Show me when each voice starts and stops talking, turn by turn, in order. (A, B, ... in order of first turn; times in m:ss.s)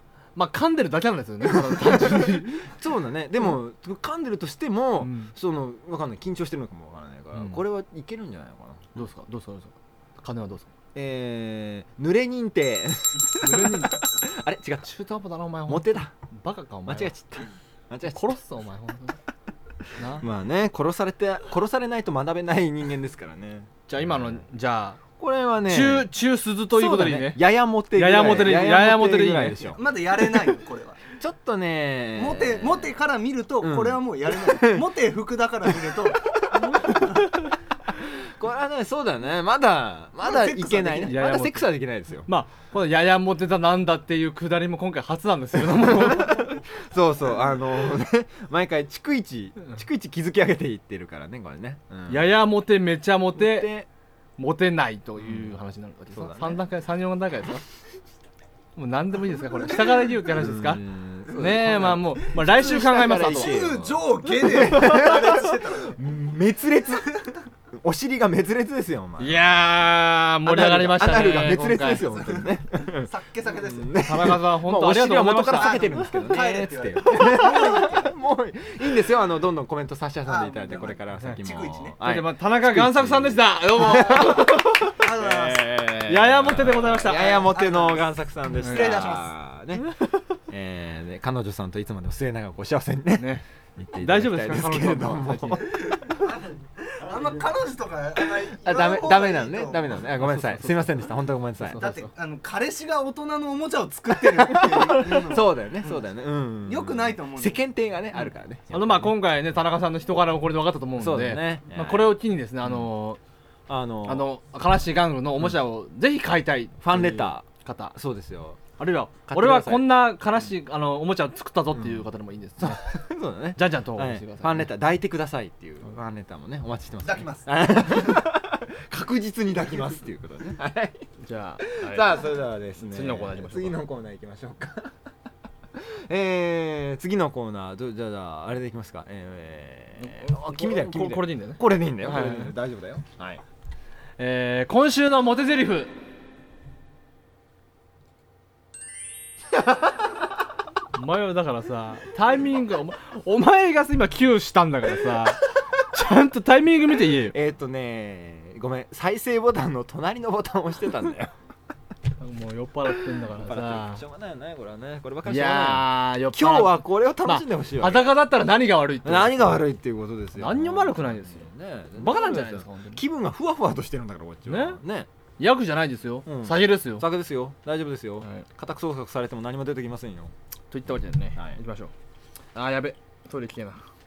0:00.4-0:02.7 A
0:01.4-0:08.9 B
0:05.0-0:05.3 A
0:07.3-0:07.6 A
0:08.9-0:10.7 A
0:10.9-0:14.9 B
0:13.4-0:14.0 A
0:14.8-0:17.1 A
0:15.7-0:16.1 B
0:16.8-0:18.2 B
0:18.0-0:19.2 A
0:19.9-0:20.2 A
0:20.2-0:24.4 B
0:23.9-0:25.0 A
0:25.2-0:26.1 B
0:25.7-0:29.8 A
0:26.7-0:29.8 B
0:29.7-0:31.0 C
0:31.2-0:32.9 B
0:32.1-0:37.3 C
0:33.6-0:34.9 B
0:35.7-0:36.0 B
0:36.5-0:37.2 B
0:37.9-0:42.3 B
0:40.2-0:41.2 C
0:41.1-0:41.7 A
0:42.2-0:46.6 A
0:45.7-0:52.4 B
0:52.1-0:53.7 A
0:53.4-0:53.9 B
0:54.4-0:57.6 A
0:55.2-0:55.5 B
0:56.1-0:56.6 B
0:58.8-1:03.6 A
1:00.3-1:07.1 B
1:03.0-1:06.0 C
1:07.1-1:07.4 C
1:07.8-1:09.4 B
1:09.2-1:12.1 A
1:10.4-1:30.0 B
1:12.0-1:14.1 C
1:14.0-1:15.9 A
1:15.5-1:18.2 C
1:20.2-1:22.0 C
1:22.0-1:24.9 A
1:25.0-1:25.8 C
1:26.1-1:27.5 A
1:27.0-1:29.3 C
1:28.6-1:29.0 A
1:30.5-1:36.2 B
1:33.2-1:33.4 A
1:34.0-1:35.8 A
1:35.7-1:40.0 C
1:38.5-1:41.8 B
1:40.1-1:41.0 A
1:41.6-1:42.1 A
1:41.7-1:46.0 C
1:44.2-1:49.1 B
1:46.6-1:47.6 C
1:48.7-1:53.2 A
1:51.0-1:52.9 B
1:53.7-1:54.3 B
1:54.0-1:57.9 A
1:56.8-1:58.6 B
1:58.8-2:02.8 A
1:59.3-2:00.0 B
2:01.7-2:02.0 B
2:02.6-2:11.1 B
2:03.6-2:04.7 A
2:07.0-2:08.1 C
2:11.2-2:12.2 A
2:11.6-2:14.9 B
2:12.8-2:13.8 A
2:15.7-2:23.4 B
2:20.0-2:22.5 A
2:24.2-2:25.9 A
2:30.9-2:37.4 A
2:37.3-2:41.3 B
2:42.2-2:44.0 A
2:43.3-2:48.1 B
2:45.2-2:49.6 A
2:49.0-2:55.1 B
2:50.4-2:53.0 A
2:54.5-2:54.8 A
2:55.4-2:57.1 A
2:56.2-3:00.3 B
3:00.7-3:01.9 A
3:02.5-3:03.8 A